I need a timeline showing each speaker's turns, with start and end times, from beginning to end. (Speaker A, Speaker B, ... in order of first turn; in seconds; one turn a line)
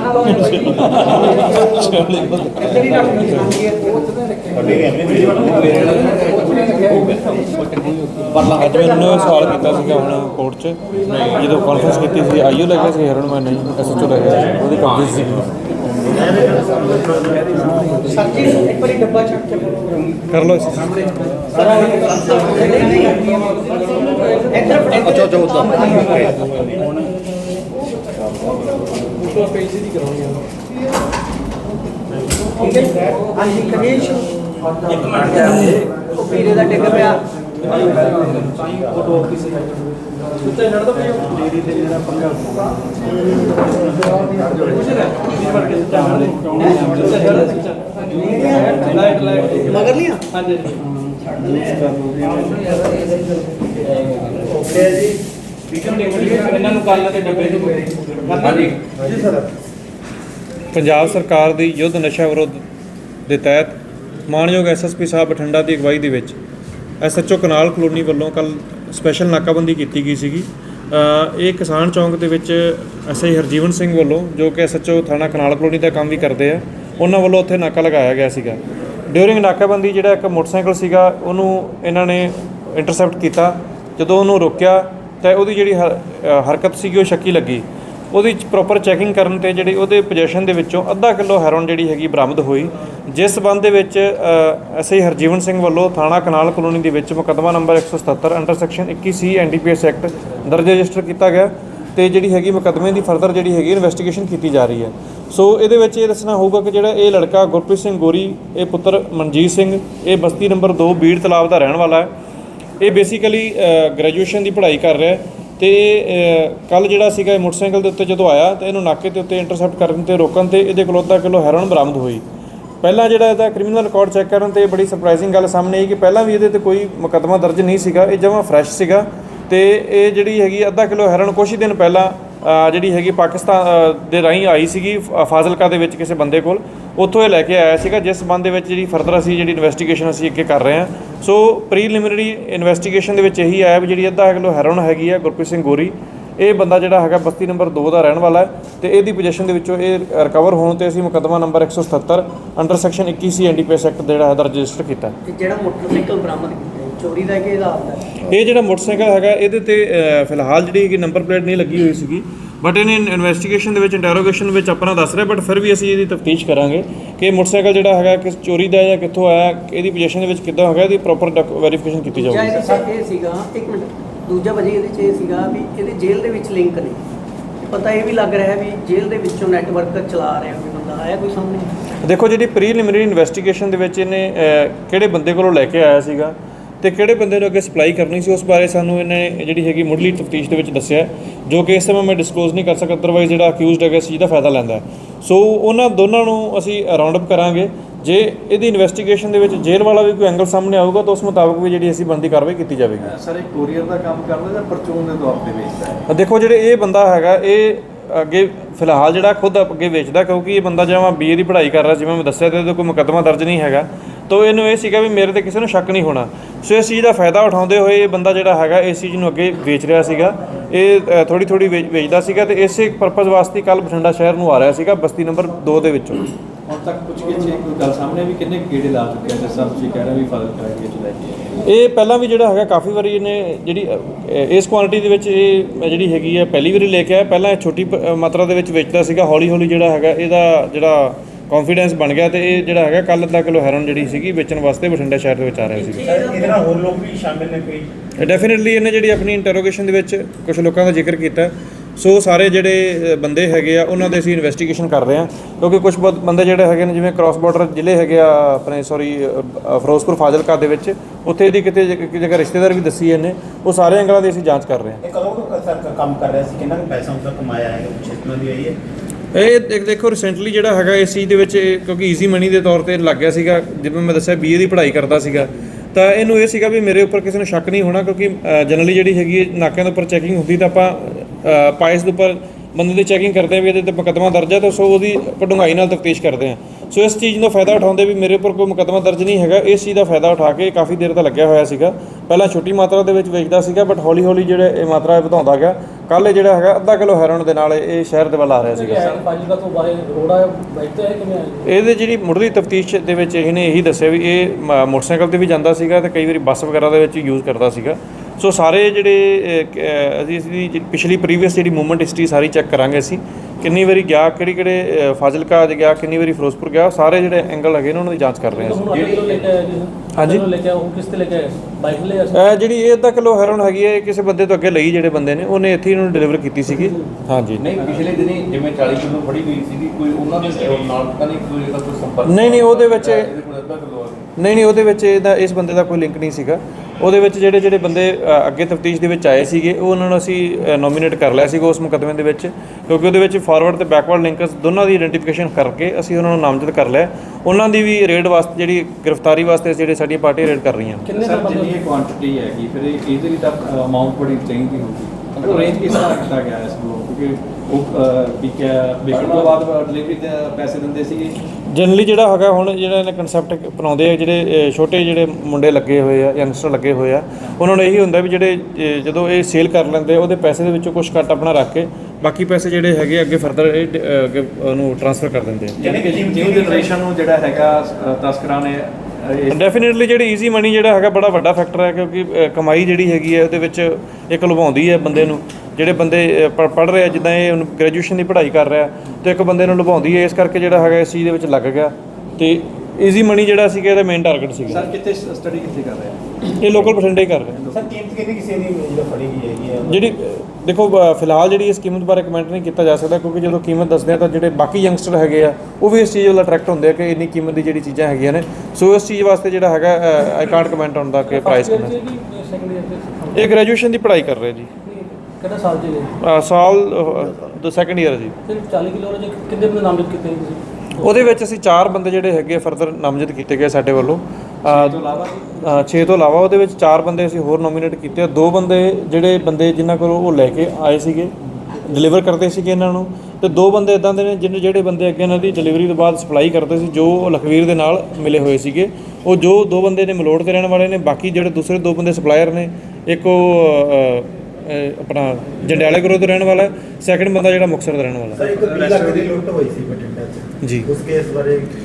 Speaker A: 0.2-2.6
Speaker B: 2.2-3.5
Speaker C: 2.7-4.1
Speaker D: 4.5-5.9
Speaker B: 5.3-9.1
Speaker A: 8.5-15.5
Speaker B: 11.0-12.0
Speaker B: 14.4-15.5
Speaker D: 16.1-18.1
Speaker C: 18.1-20.1
Speaker A: 20.3-20.9
Speaker C: 21.5-26.3
Speaker D: 21.7-22.5
Speaker D: 25.6-27.0
Speaker D: 32.3-33.3
Speaker C: 32.6-34.3
Speaker D: 35.0-35.4
Speaker A: 35.4-35.9
Speaker C: 36.0-37.2
Speaker E: 37.6-39.5
Speaker D: 38.6-39.0
Speaker E: 40.4-42.7
Speaker E: 44.4-50.7
Speaker C: 48.1-49.0
Speaker C: 49.6-50.2
Speaker D: 54.4-55.1
Speaker F: 55.8-58.4
Speaker B: 58.4-58.9
Speaker D: 58.9-59.5
Speaker A: 60.7-62.6
Speaker A: 63.3-66.4
Speaker A: 67.0-112.1
Speaker A: 112.8-122.2
Speaker A: 122.8-155.1
Speaker C: 155.3-158.2
Speaker A: 158.2-172.8
Speaker C: 172.1-177.0
Speaker C: 177.6-181.7
Speaker A: 182.0-203.1
Speaker E: 203.0-206.0
Speaker A: 206.1-226.3
Speaker E: 226.7-231.6
Speaker A: 231.6-246.1
Speaker C: 245.7-246.6
Speaker D: 246.0-247.9
Speaker A: 248.2-265.0
Speaker D: 265.0-268.8
Speaker A: 269.3-299.0
Speaker F: 298.6-301.7
Speaker A: 301.6-318.9
Speaker F: 318.5-322.5
Speaker B: 318.9-319.5
Speaker A: 320.1-320.4
Speaker A: 322.3-327.6
Speaker F: 326.7-327.0
Speaker B: 327.6-334.3
Speaker A: 332.2-333.3
Speaker A: 334.4-351.0
Speaker F: 351.0-351.7
Speaker E: 351.1-361.4
Speaker B: 359.1-359.6
Speaker A: 361.7-375.8
Speaker E: 375.8-379.6
Speaker D: 375.8-376.9
Speaker A: 379.5-394.9
Speaker E: 394.6-397.9
Speaker A: 396.6-397.6
Speaker D: 397.7-400.1
Speaker A: 399.9-411.9
Speaker F: 411.2-413.5
Speaker A: 413.3-414.7
Speaker F: 414.8-416.1
Speaker A: 416.2-418.3
Speaker F: 418.4-421.3
Speaker A: 421.0-425.0
Speaker E: 424.6-426.2
Speaker A: 425.6-431.3
Speaker A: 431.9-448.5
Speaker D: 448.3-451.7
Speaker E: 448.4-449.3
Speaker A: 450.6-450.9